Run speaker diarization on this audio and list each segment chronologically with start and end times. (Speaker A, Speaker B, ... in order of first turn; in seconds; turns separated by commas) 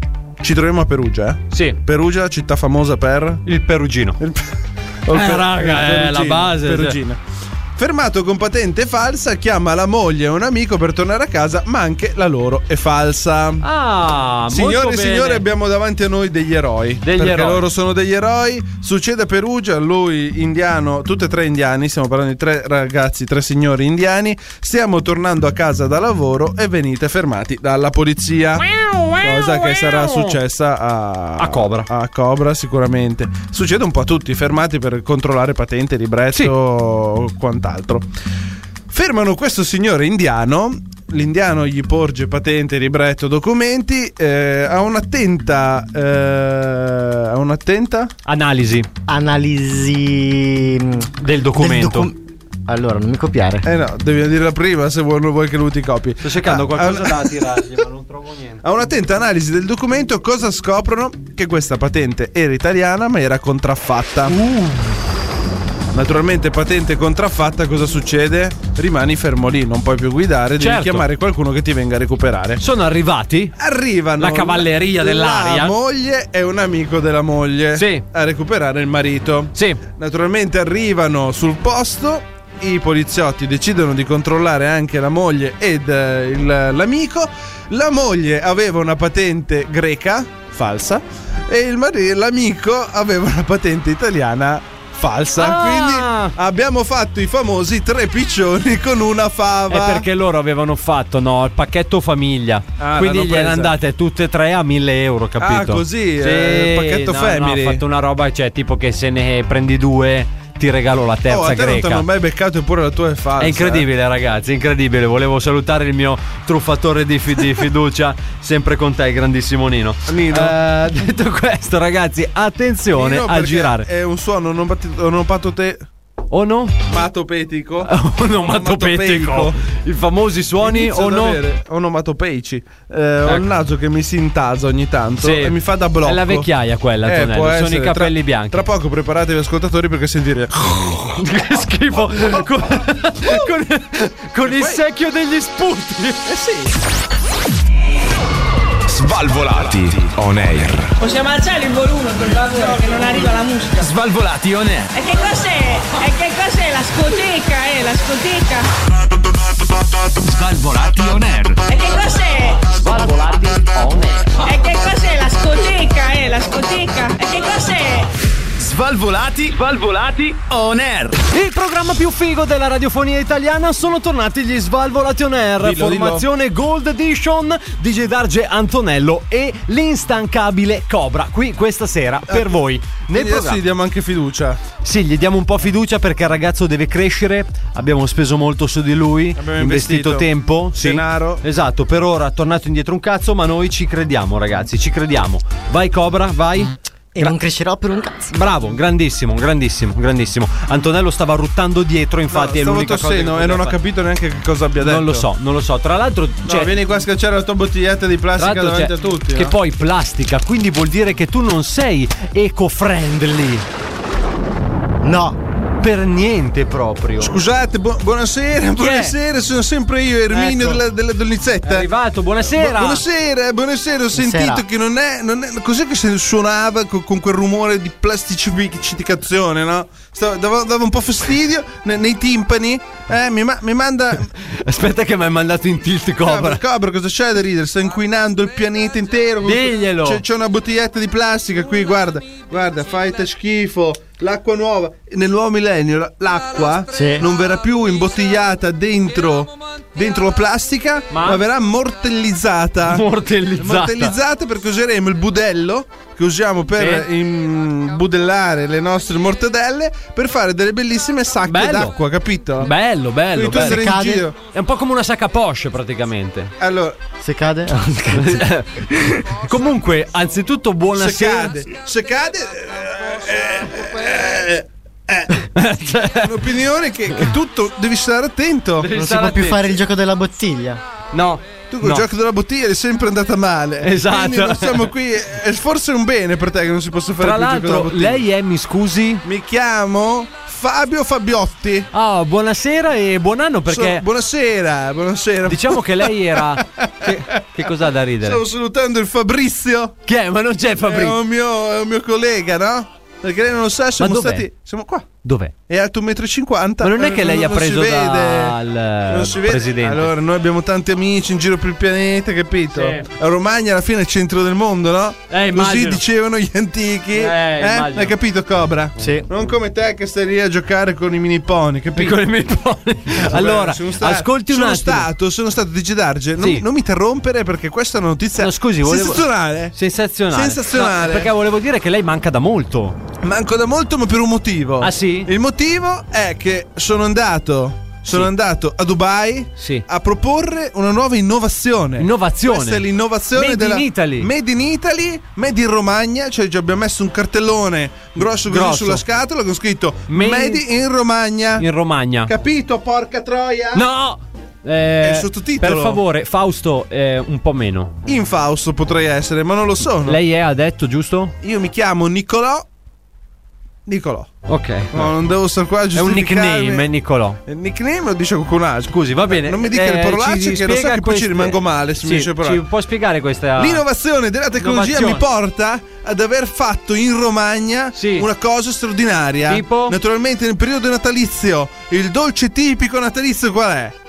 Speaker A: 0.4-3.4, Speaker B: 1.5-1.8, Speaker B: 3.5-4.2, Speaker A: 4.2-4.5, Speaker A: 5.1-7.2, Speaker B: 5.1-7.0, Speaker A: 7.8-13.7, Speaker B: 13.6-15.4, Speaker A: 14.5-28.7, Speaker B: 17.0-17.6, Speaker B: 28.8-30.4, Speaker A: 29.2-38.1, Speaker B: 31.4-31.9, Speaker A: 38.9-48.1, Speaker B: 48.3-48.9, Speaker C: 49.1-53.7, Speaker B: 51.2-52.1, Speaker A: 53.6-57.5, Speaker B: 56.2-58.6, Speaker A: 58.6-64.3, Speaker B: 64.3-64.9, Speaker A: 65.9-72.6, Speaker B: 70.6-71.1, Speaker B: 72.6-73.5, Speaker A: 73.6-100.1, Speaker B: 74.2-75.7, Speaker B: 77.8-78.0, Speaker B: 79.5-79.8, Speaker B: 95.4-96.3, Speaker B: 99.7-112.0, Speaker A: 102.8-103.8, Speaker A: 105.4-107.8, Speaker A: 111.3-113.9, Speaker B: 113.4-123.9, Speaker A: 120.1-120.5, Speaker A: 122.9-125.9, Speaker B: 126.3-126.8, Speaker A: 126.9-127.9, Speaker B: 127.8-131.4, Speaker A: 128.4-129.6, Speaker A: 130.6-136.5, Speaker B: 135.2-138.6, Speaker A: 137.0-141.2, Speaker B: 141.1-146.4, Speaker A: 144.4-144.8, Speaker D: 148.9-150.9, Speaker E: 151.0-153.9, Speaker D: 153.8-154.9, Speaker E: 154.9-158.7, Speaker D: 160.2-161.6, Speaker E: 161.6-162.7, Speaker D: 162.8-164.3, Speaker E: 164.4-168.1, Speaker D: 168.6-171.2, Speaker B: 171.3-183.6, Speaker A: 175.6-176.3, Speaker A: 182.3-182.6, Speaker A: 183.1-184.6, Speaker B: 184.8-197.3, Speaker A: 189.4-191.4, Speaker C: 197.1-198.3, Speaker B: 198.3-203.8, Speaker A: 202.3-205.3, Speaker B: 204.8-206.7, Speaker A: 206.4-209.5, Speaker B: 208.4-213.7, Speaker C: 215.0-215.4, Speaker B: 215.8-217.3, Speaker A: 217.2-221.9, Speaker B: 218.8-219.2, Speaker B: 220.3-220.8, Speaker B: 221.6-223.0, Speaker A: 222.5-234.3, Speaker C: 224.1-224.7, Speaker B: 234.4-236.6, Speaker A: 236.2-253.0, Speaker B: 239.4-240.2, Speaker C: 246.9-247.3, Speaker B: 251.1-251.4, Speaker B: 252.9-254.1, Speaker A: 253.6-262.7, Speaker B: 256.8-257.1, Speaker B: 261.5-262.0, Speaker B: 262.6-263.8, Speaker A: 263.3-264.4, Speaker C: 263.5-264.3, Speaker B: 264.5-266.5, Speaker A: 266.6-267.0, Speaker C: 267.2-269.2, Speaker B: 268.1-268.8, Speaker B: 269.4-271.6, Speaker A: 271.0-275.3, Speaker B: 275.5-276.3, Speaker A: 276.1-278.9, Speaker B: 278.8-279.8, Speaker C: 278.9-280.8, Speaker B: 281.1-282.1, Speaker A: 281.7-288.2, Speaker B: 283.8-284.9, Speaker B: 287.2-289.2, Speaker A: 289.2-291.9, Speaker B: 291.9-294.0, Speaker A: 293.7-297.1, Speaker B: 295.5-298.4, Speaker A: 298.2-300.0, Speaker B: 300.1-301.2, Speaker A: 300.8-305.1, Speaker B: 304.0-304.5, Speaker B: 305.2-305.5, Speaker A: 305.7-308.6, Speaker B: 306.8-310.1, Speaker A: 309.1-322.2, Speaker B: 312.7-313.1, Speaker B: 315.3-316.0, Speaker B: 317.1-318.1, Speaker C: 319.0-319.3, Speaker B: 321.9-325.1, Speaker A: 323.1-329.8, Speaker B: 326.4-326.6, Speaker B: 328.4-333.0, Speaker A: 330.3-331.3, Speaker A: 333.2-351.7, Speaker B: 334.8-335.3, Speaker B: 339.6-339.9, Speaker B: 342.0-344.3, Speaker B: 348.2-349.0, Speaker B: 350.1-350.6, Speaker B: 351.6-352.3, Speaker A: 352.3-353.8, Speaker B: 353.7-358.0, Speaker A: 355.0-356.0, Speaker A: 358.1-360.2, Speaker B: 360.0-361.4, Speaker A: 361.4-362.7, Speaker A: 363.9-364.3, Speaker B: 364.5-365.1, Speaker A: 364.9-366.9, Speaker B: 365.9-367.4, Speaker A: 367.5-372.6, Speaker B: 368.9-373.8, Speaker A: 373.6-384.0, Speaker B: 374.6-375.2, Speaker B: 377.9-378.3, Speaker B: 379.5-380.0